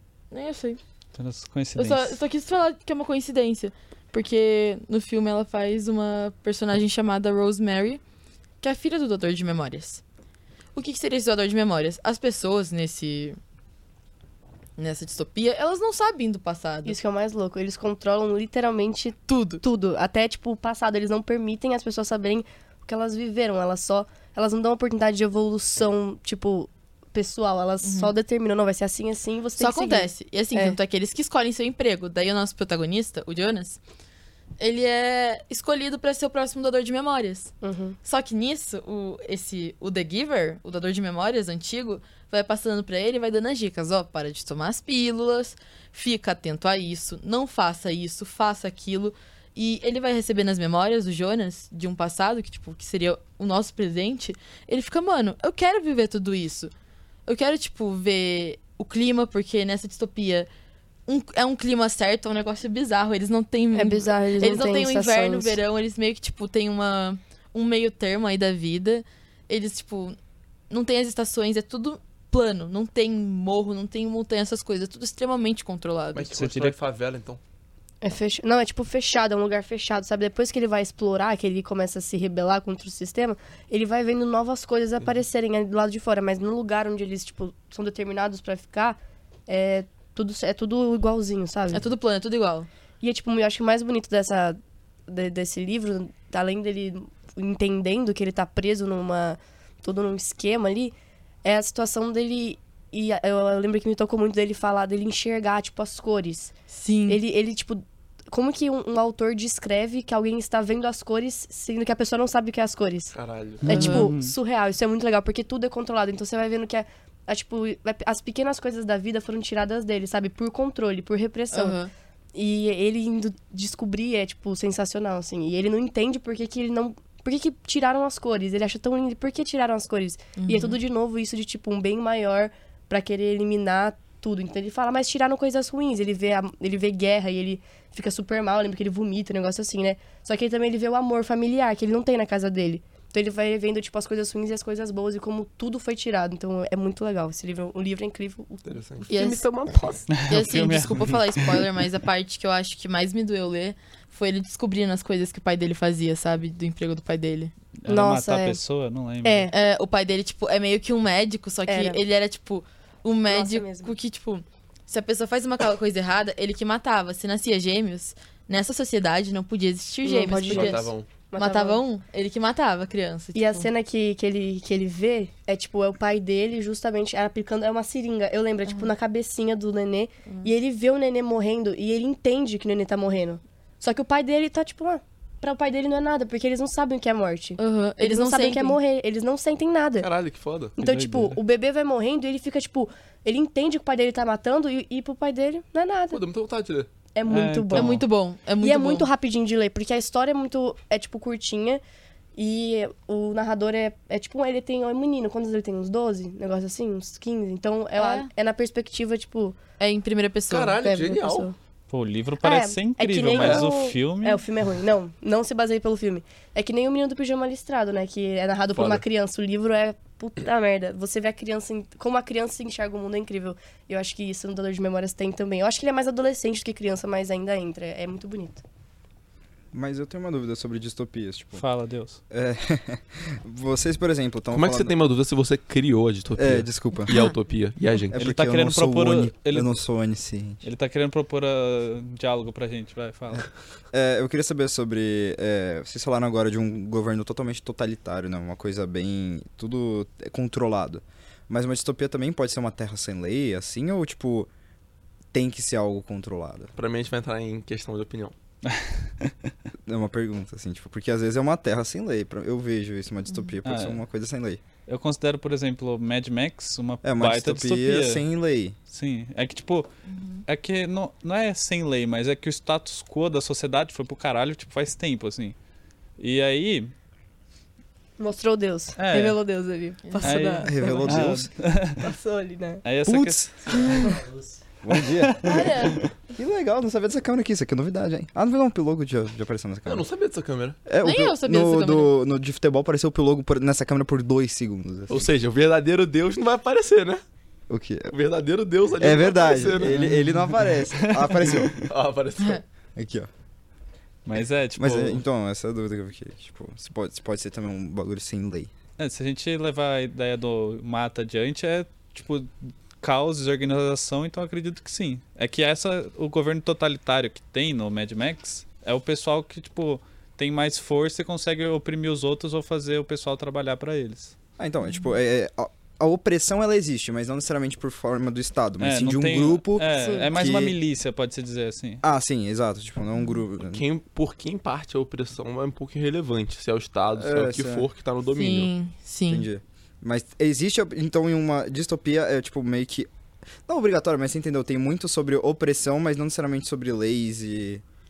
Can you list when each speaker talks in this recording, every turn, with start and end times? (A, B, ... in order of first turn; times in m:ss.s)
0:00.3-0:00.8 A
0:01.2-0:02.2 B
0:01.7-0:08.0 A
0:08.6-0:10.0 A
0:10.7-0:13.4 A
0:14.8-0:17.0 A
0:16.8-0:30.8 C
0:19.3-0:19.6 A
0:27.8-0:28.1 A
0:29.6-0:33.8 A
0:34.6-0:37.5 A
0:37.6-0:38.0 C
0:38.0-0:56.7 A
0:57.3-1:00.5 A
1:01.1-1:10.2 A
1:03.7-1:05.6 C
1:10.7-1:16.3 A
1:16.1-1:17.4 D
1:16.3-1:16.8 B
1:18.0-1:31.9 C
1:31.7-1:32.7 A
1:33.0-1:46.5 C
1:46.7-1:47.2 A
1:47.1-2:01.8 C
1:53.1-1:53.7 D
1:53.6-1:54.3 B
1:53.7-1:54.1 A
2:01.5-2:01.9 A
2:02.3-2:29.4 C
2:10.4-2:10.8 A
2:28.6-2:30.1 D
2:29.1-2:29.4 A
2:30.1-2:31.6 B
2:30.3-2:37.5 A
2:37.8-2:39.5 B
2:37.9-2:38.6 C
2:39.2-2:39.5 C
2:39.5-2:53.7 A
2:41.7-2:42.0 C
2:43.3-2:43.9 C
2:50.0-2:51.8 C
2:50.5-2:51.1 D
2:53.3-3:10.1 C
2:58.7-2:58.9 A
3:07.6-3:08.8 A
3:10.0-3:10.8 D
3:10.8-3:16.2 C
3:10.8-3:11.4 B
3:16.1-3:16.9 D
3:17.1-3:18.0 C
3:17.3-3:18.0 B
3:17.7-3:19.1 A
3:18.6-3:21.8 C
3:22.4-3:29.6 C
3:28.0-3:28.3 A
3:29.8-3:30.8 A
3:30.5-3:31.5 D
3:30.8-3:31.5 C
3:31.9-3:34.4 B
3:32.4-3:48.6 C
3:33.3-3:33.7 D
3:38.7-3:39.0 D
3:49.7-3:51.6 E
3:51.5-3:52.2 B
3:52.3-3:54.9 E
3:54.5-3:58.1 D
3:56.4-3:57.1 E
3:58.1-4:00.6 E
3:58.2-3:59.7 B
4:00.6-4:03.5 B
4:03.9-4:14.5 E
4:15.3-4:16.7 E
4:16.8-4:18.3 D
4:18.6-4:19.3 B
4:19.8-4:24.6 E
4:23.6-4:24.0 B
4:24.9-4:28.2 B
4:27.0-4:28.8 E
4:28.9-4:29.9 B
4:30.1-4:30.4 A
4:30.5-4:35.5 B
4:36.2-4:36.9 B
4:38.2-4:41.3 C
4:39.0-4:39.4 B
4:40.0-4:40.4 A
4:40.2-4:42.1 B
4:40.6-4:41.5 E
4:42.0-4:42.8 C
4:42.8-4:44.2 B
4:43.0-4:43.5 E
4:44.8-4:50.0 E
4:45.2-4:45.5 B
4:45.4-4:46.0 A
4:45.7-4:46.0 C
4:49.8-4:50.8 D
4:50.8-4:55.3 E
4:51.0-4:52.1 A
4:55.1-4:57.2 D
4:57.7-4:58.1 E
4:58.1-5:00.0 D
4:59.0-5:01.7 E
4:59.8-5:01.9 B
5:01.7-5:02.6 D
5:03.0-5:03.3 E
5:04.2-5:05.2 B
5:04.8-5:08.7 E
5:09.0-5:24.3 B
5:24.6-5:30.8 E
5:28.8-5:32.0 B
5:30.0-5:30.3 C
5:32.0-5:33.8 E
5:33.7-5:38.7 D
5:37.2-5:37.9 E
5:38.3-5:39.5 A
5:39.3-5:43.1 E
5:43.6-5:47.8 E